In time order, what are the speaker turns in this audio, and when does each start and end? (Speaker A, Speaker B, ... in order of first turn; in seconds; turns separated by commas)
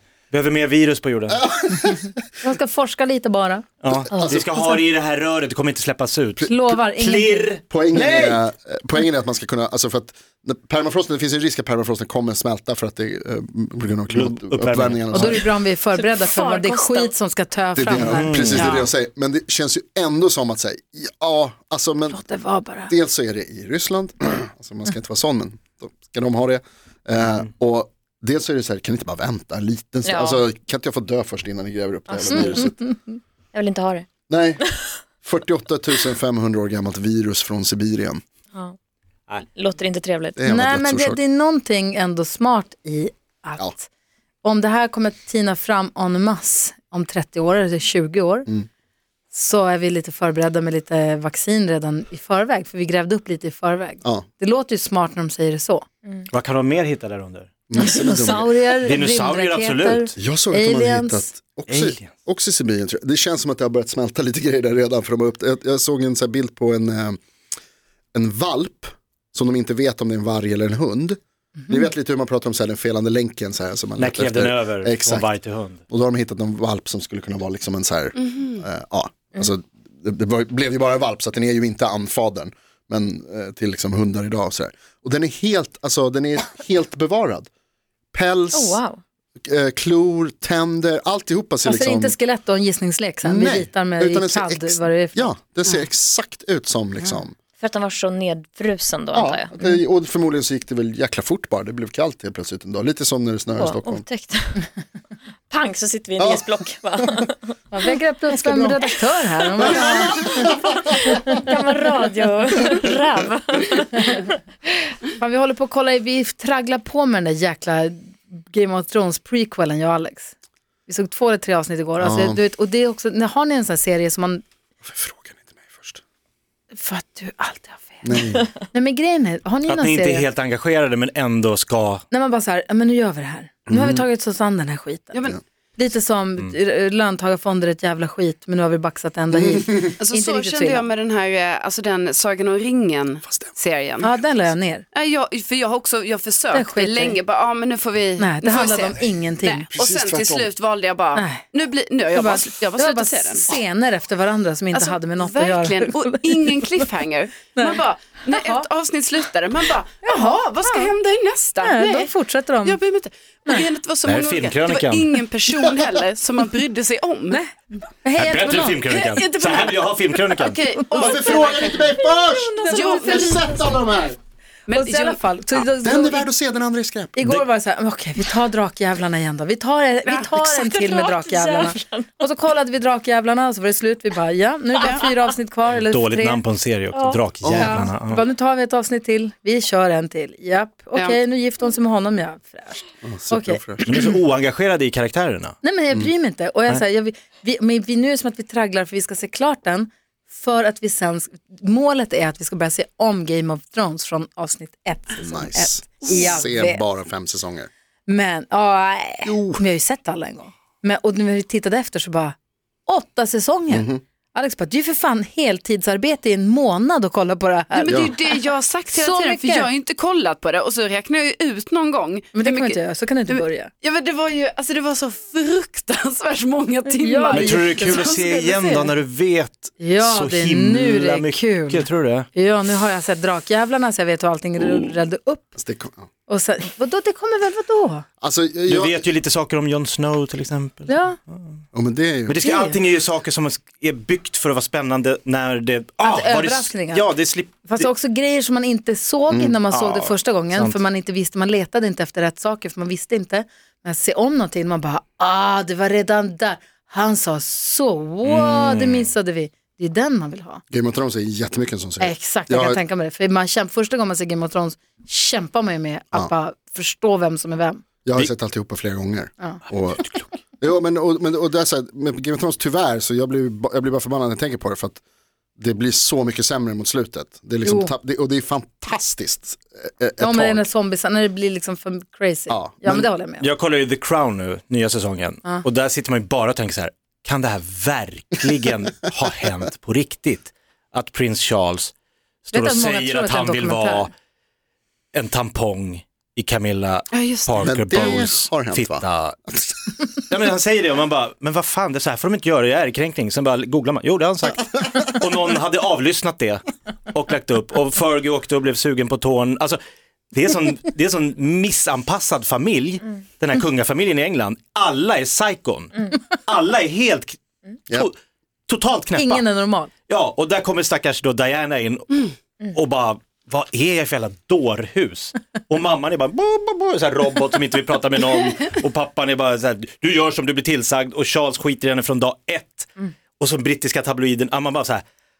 Speaker A: 0.3-1.5, Speaker B: 1.3-2.2, Speaker C: 2.4-3.6, Speaker A: 3.8-8.4, Speaker B: 3.9-4.7, Speaker C: 6.4-7.5, Speaker B: 7.7-15.4, Speaker A: 14.1-15.5, Speaker C: 15.1-18.6, Speaker D: 15.9-17.1, Speaker B: 17.8-22.2, Speaker A: 18.1-18.8, Speaker E: 18.5-18.9, Speaker C: 22.1-22.9, Speaker B: 22.9-32.8, Speaker D: 30.0-30.4, Speaker D: 32.1-32.7, Speaker D: 33.5-34.1, Speaker B: 34.3-34.7, Speaker B: 35.2-38.2, Speaker D: 39.4-40.4, Speaker B: 40.4-41.2, Speaker C: 40.5-43.9, Speaker C: 44.4-48.5, Speaker C: 49.3-55.9, Speaker A: 56.3-57.6, Speaker B: 57.7-58.7, Speaker C: 57.8-61.3, Speaker D: 57.9-58.4, Speaker A: 58.8-60.1, Speaker B: 60.2-67.2, Speaker A: 61.7-62.1, Speaker B: 68.1-75.3, Speaker A: 74.0-75.8, Speaker B: 75.9-87.5, Speaker E: 78.2-78.6, Speaker B: 88.1-88.8, Speaker D: 88.5-89.0, Speaker B: 89.4-92.1, Speaker C: 91.6-95.3, Speaker B: 93.2-97.3, Speaker D: 97.6-99.5, Speaker B: 99.1-104.0, Speaker D: 103.6-104.7, Speaker D: 105.5-107.6, Speaker B: 106.2-106.4, Speaker C: 107.7-110.3, Speaker B: 108.4-108.8, Speaker B: 109.6-110.6, Speaker D: 109.7-114.9, Speaker C: 115.2-120.3, Speaker C: 120.9-124.4, Speaker B: 122.0-122.4, Speaker B: 124.8-126.0, Speaker C: 126.7-130.3, Speaker B: 128.0-128.5, Speaker A: 129.7-132.0, Speaker C: 132.1-135.2, Speaker B: 133.7-134.0, Speaker E: 135.1-135.4, Speaker C: 135.8-140.8, Speaker E: 140.0-144.1, Speaker B: 143.2-143.5, Speaker C: 144.0-144.9, Speaker E: 144.9-153.6, Speaker C: 146.5-147.2, Speaker C: 148.2-149.7, Speaker B: 149.7-150.5, Speaker C: 151.1-151.4, Speaker C: 152.1-156.8, Speaker E: 154.7-162.1, Speaker C: 158.3-158.7, Speaker C: 160.0-160.9, Speaker C: 161.6-162.8, Speaker E: 162.6-167.4, Speaker A: 164.0-165.2, Speaker C: 167.3-168.8, Speaker A: 168.2-170.7, Speaker E: 168.8-172.0, Speaker C: 170.8-171.0, Speaker B: 170.9-174.2, Speaker D: 172.2-172.9, Speaker C: 172.6-173.3, Speaker E: 172.6-173.4, Speaker E: 174.7-175.2, Speaker C: 174.7-176.3, Speaker B: 175.8-177.1, Speaker C: 177.2-186.4, Speaker D: 180.1-182.1, Speaker A: 185.7-188.2, Speaker D: 186.9-187.2, Speaker B: 187.4-187.8, Speaker C: 187.6-193.6, Speaker B: 193.0-193.9, Speaker A: 193.8-195.6, Speaker C: 195.6-206.8, Speaker B: 205.2-207.7, Speaker E: 206.1-206.3, Speaker C: 208.1-218.3, Speaker B: 209.2-209.6, Speaker B: 213.7-214.0, Speaker E: 217.7-228.9, Speaker B: 217.9-218.1, Speaker C: 218.9-219.7, Speaker C: 222.3-223.7, Speaker C: 226.9-228.1, Speaker A: 227.3-232.3, Speaker C: 229.8-235.5, Speaker B: 235.6-236.1, Speaker C: 236.3-238.1, Speaker B: 238.2-239.0, Speaker A: 238.7-241.4, Speaker C: 240.9-241.2, Speaker B: 241.7-242.4, Speaker A: 242.3-247.9, Speaker C: 242.4-242.8, Speaker C: 246.0-247.1, Speaker C: 247.7-260.6, Speaker B: 249.3-249.6, Speaker A: 249.7-250.8, Speaker A: 258.2-259.1, Speaker B: 260.7-262.8, Speaker C: 262.0-267.8, Speaker B: 268.0-275.0, Speaker B: 275.6-280.6, Speaker C: 277.6-277.9, Speaker C: 280.2-283.5, Speaker B: 282.5-283.1, Speaker A: 283.4-291.9, Speaker A: 292.5-294.1, Speaker C: 292.5-294.1, Speaker A: 295.1-299.4, Speaker E: 297.1-298.1, Speaker B: 297.6-299.6, Speaker A: 300.3-309.8, Speaker A: 310.3-318.1, Speaker A: 318.7-319.4, Speaker C: 319.1-319.9, Speaker A: 320.1-335.0